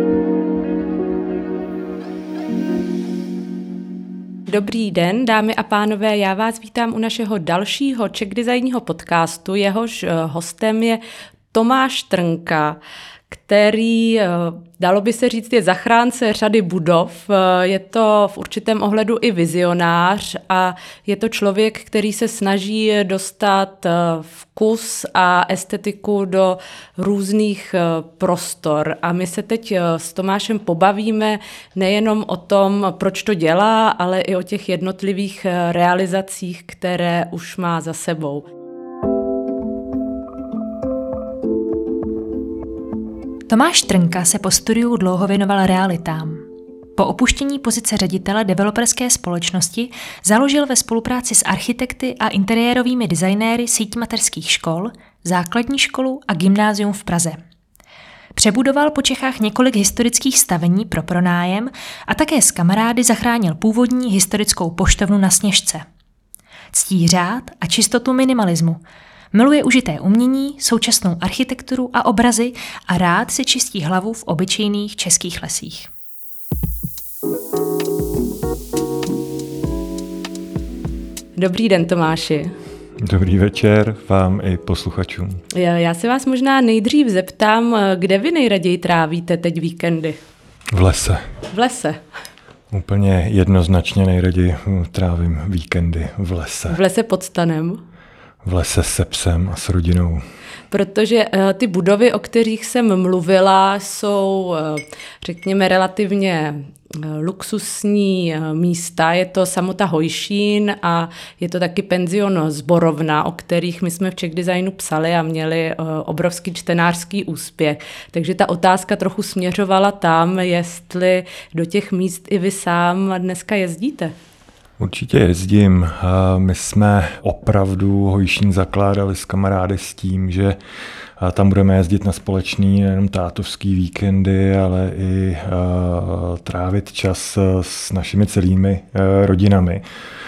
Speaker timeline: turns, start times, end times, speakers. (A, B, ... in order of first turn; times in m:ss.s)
0:04.5-0:11.0 A
0:11.5-0:12.8 A
0:13.3-0:38.5 A
0:43.5-0:46.4 B
0:47.0-0:57.4 B
0:58.4-1:05.8 B
1:06.7-1:15.9 B
1:21.4-1:22.5 A
1:23.0-1:25.4 C
1:25.5-1:30.2 A
1:30.7-1:31.2 C
1:31.5-1:32.0 A
1:32.7-1:36.8 C
1:36.7-1:37.8 A
1:38.4-1:40.2 C
1:40.7-2:04.1 A
2:04.8-2:10.6 C
2:11.2-2:19.8 C